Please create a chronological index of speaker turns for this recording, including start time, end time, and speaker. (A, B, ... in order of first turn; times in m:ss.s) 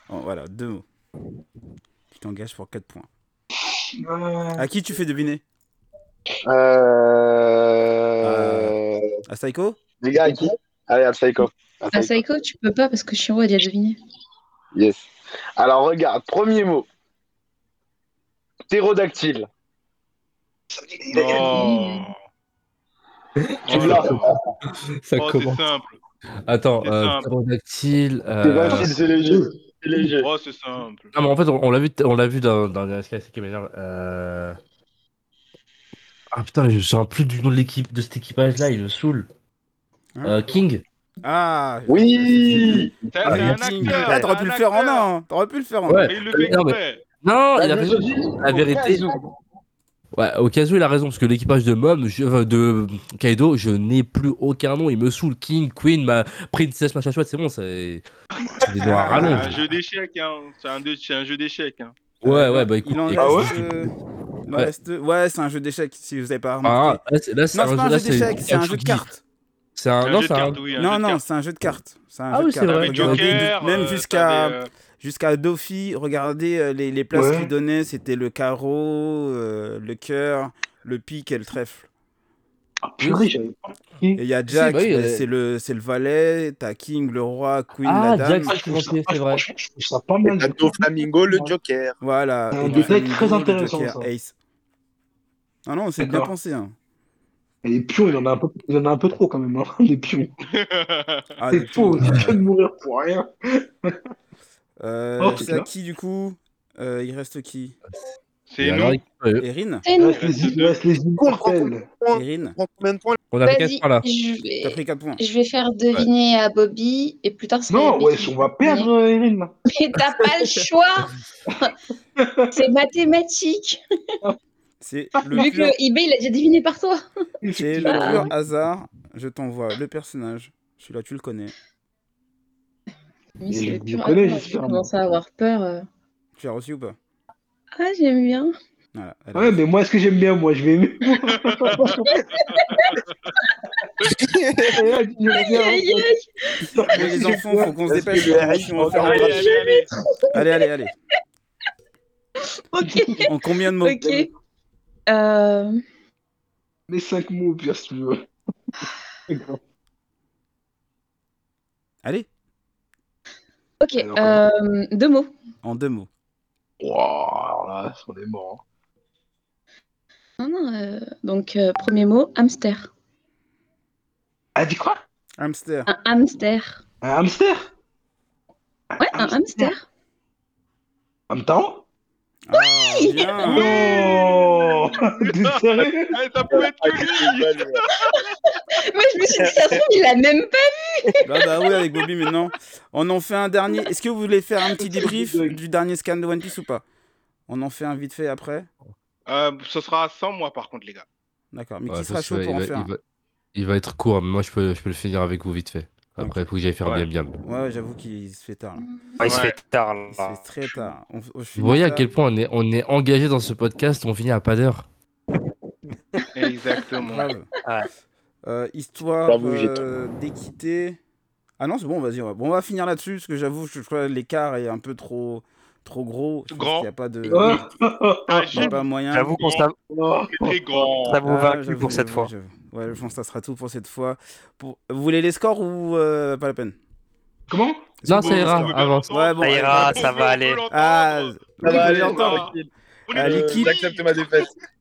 0:00.1-0:00.9 A
0:02.1-0:03.1 A
0:04.0-0:04.6 B
0:04.6-0:05.4 A
0:06.4-0:09.1 C
0:08.2-0:09.8 A
0:10.0-0:12.2 C
0:11.9-0:14.0 D
0:14.7-0:16.9 C
0:18.7-0:19.5 C
0:20.7-0:22.0 B
0:21.1-0:22.2 E
0:23.7-0:24.3 E
0:23.7-0:24.4 C
0:23.7-0:25.6 F
0:25.2-0:26.0 E
0:26.5-0:28.9 F
0:26.8-0:27.3 E
0:28.4-0:30.3 C
0:30.2-0:31.1 E
0:31.1-0:34.6 F
0:36.3-0:39.3 F
0:40.2-0:40.8 F
0:41.2-0:46.1 A
0:41.9-0:43.3 C
0:43.1-0:45.1 E
0:43.3-0:44.2 F
0:45.9-0:49.0 F
0:46.1-0:47.0 E
0:47.6-0:49.2 C
0:50.1-0:58.0 F
0:58.4-0:59.5 B
0:58.6-0:59.6 F
0:59.1-1:02.0 E
1:02.2-1:03.9 F
1:02.2-1:03.9 A
1:03.2-1:03.6 B
1:04.5-1:07.0 A
1:06.6-1:09.1 F
1:07.5-1:09.2 A
1:09.8-1:10.6 F
1:10.0-1:11.2 E
1:10.8-1:21.9 A
1:12.3-1:13.6 F
1:12.6-1:14.7 E
1:17.1-1:17.5 B
1:22.8-1:24.2 B
1:23.0-1:23.3 F
1:24.2-1:28.5 A
1:24.4-1:25.2 F
1:27.8-1:29.4 F
1:28.4-1:31.5 B
1:30.2-1:32.0 C
1:32.0-1:34.3 A
1:32.5-1:34.1 B
1:32.7-1:33.0 E
1:35.7-1:36.7 A
1:36.0-1:36.3 B
1:37.6-1:40.3 B
1:40.4-1:41.2 E
1:41.4-1:42.4 A
1:41.5-1:44.0 B
1:44.8-1:47.8 A
1:45.2-1:45.7 B
1:48.5-1:49.0 E
1:48.6-1:49.4 F
1:49.4-1:49.8 A
1:49.8-1:50.2 D
1:50.0-1:51.9 B
1:50.1-1:50.8 E
1:51.2-1:53.2 C
1:52.1-1:52.6 A
1:53.3-1:54.1 F
1:53.5-1:58.9 D
1:54.6-1:55.2 A
1:57.7-1:59.5 B
1:59.7-2:01.7 D
2:02.2-2:02.6 B
2:02.5-2:03.8 D
2:04.8-2:05.8 A
2:05.3-2:07.0 D
2:07.4-2:08.3 B
2:07.6-2:11.5 A
2:07.9-2:08.3 D
2:13.4-2:15.9 D
2:13.5-2:14.9 B
2:16.4-2:17.0 A
2:17.8-2:18.5 D
2:18.9-2:19.6 A
2:19.4-2:22.3 B
2:21.3-2:22.8 E
2:22.6-2:23.0 D
2:24.7-2:26.1 B
2:25.3-2:26.7 D
2:26.6-2:29.5 B
2:26.9-2:29.5 A
2:27.9-2:28.8 C
2:28.8-2:29.9 E
2:29.3-2:30.4 D
2:30.3-2:31.0 A
2:32.7-2:34.3 D
2:33.3-2:34.0 A
2:34.0-2:34.3 B
2:35.1-2:35.8 D
2:36.9-2:38.2 B
2:39.3-2:39.6 B
2:43.8-2:45.3 D
2:44.0-2:44.4 B
2:45.6-2:46.1 A
2:46.8-2:48.6 B
2:50.4-2:52.9 D
2:54.6-2:55.0 B
2:55.4-2:55.9 A
2:55.9-2:56.8 D
2:57.0-2:57.7 B
2:58.9-2:59.7 B
2:59.0-2:59.8 D
3:01.3-3:01.8 B
3:02.5-3:04.2 A
3:02.6-3:04.0 D
3:03.4-3:08.1 E
3:03.4-3:06.2 B
3:06.5-3:07.8 C
3:08.8-3:11.3 D
3:09.3-3:09.8 C
3:11.2-3:16.8 A
3:14.8-3:15.6 B
3:17.5-3:18.7 A
3:19.3-3:21.1 E
3:21.5-3:22.9 A
3:21.9-3:23.0 F
3:23.6-3:27.4 F
3:27.4-3:28.9 A
3:29.2-3:30.4 G
3:29.2-3:29.6 E
3:30.1-3:32.1 A
3:31.6-3:34.9 F
3:36.4-3:37.3 E
3:37.0-3:37.5 A
3:38.4-3:41.0 A
3:39.3-3:39.8 C
3:41.6-3:47.6 A
3:46.5-3:46.9 E
3:47.3-3:48.6 B
3:48.3-3:48.8 E
3:48.5-3:49.4 A
3:49.1-3:49.8 G
3:49.3-3:49.7 E
3:49.9-3:50.6 B
3:50.3-3:51.2 E
3:51.1-3:52.3 G
3:51.2-3:56.8 A
3:57.5-3:58.0 B
3:58.0-4:00.1 A
3:58.1-3:59.1 F
3:58.1-4:02.6 E
3:59.4-4:00.6 G
4:00.7-4:02.4 A
4:01.6-4:04.5 C
4:01.6-4:02.2 B
4:03.1-4:04.5 E
4:03.2-4:03.8 A